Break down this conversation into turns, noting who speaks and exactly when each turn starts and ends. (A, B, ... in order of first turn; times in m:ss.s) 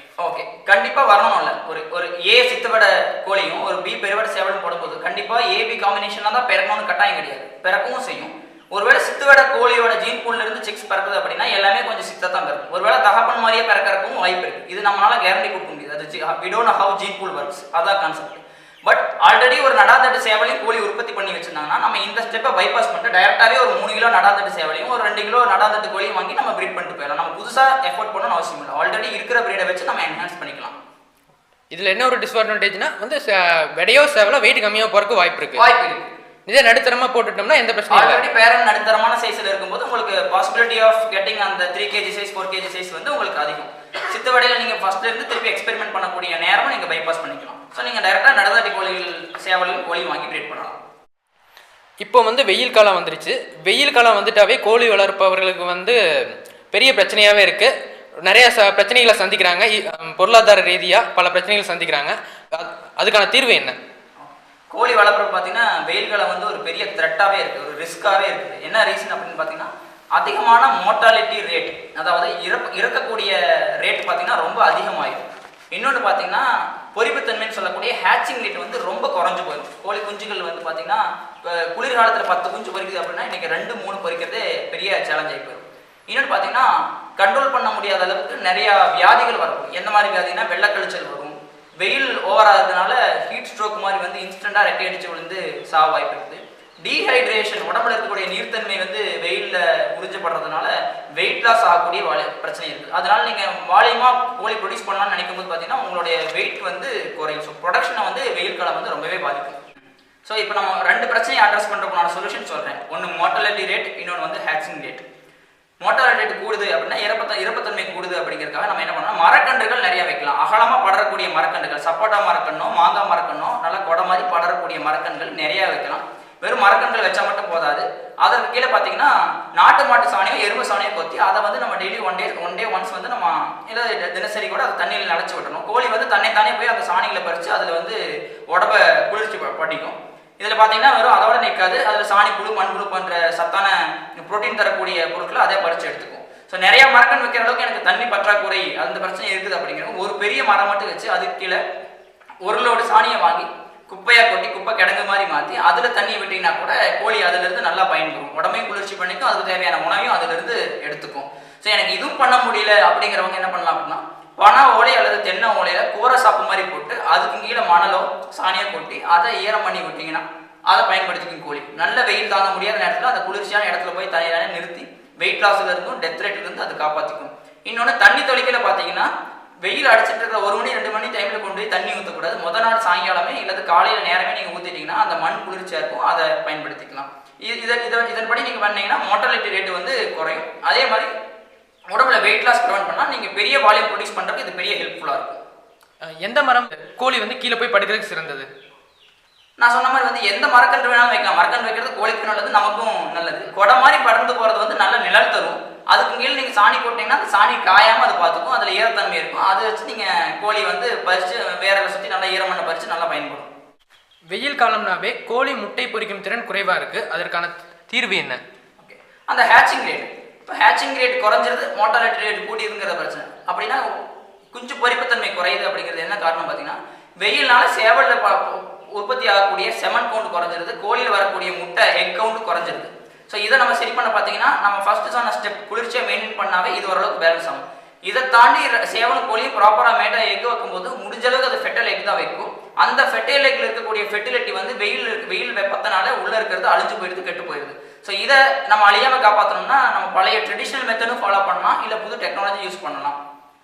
0:00.2-0:30.7 A
0:31.7-0:33.2 B
0:33.8-0:35.6 B
0:35.5-0:36.1 A
0:36.5-0:38.2 B
0:37.9-0:50.8 A
0:52.0-0:56.0 B
0:56.7-0:57.7 B
0:58.2-1:03.7 B
1:04.2-1:49.6 A
1:50.2-1:55.0 A
1:55.8-2:18.0 A
2:18.5-2:31.6 A
2:32.4-2:59.1 A
2:59.6-3:11.1 A
3:11.9-3:15.4 A
3:16.2-3:18.5 B
3:19.6-3:33.5 A
3:34.3-3:38.4 B
3:38.8-3:43.8 A
3:44.5-4:13.2 A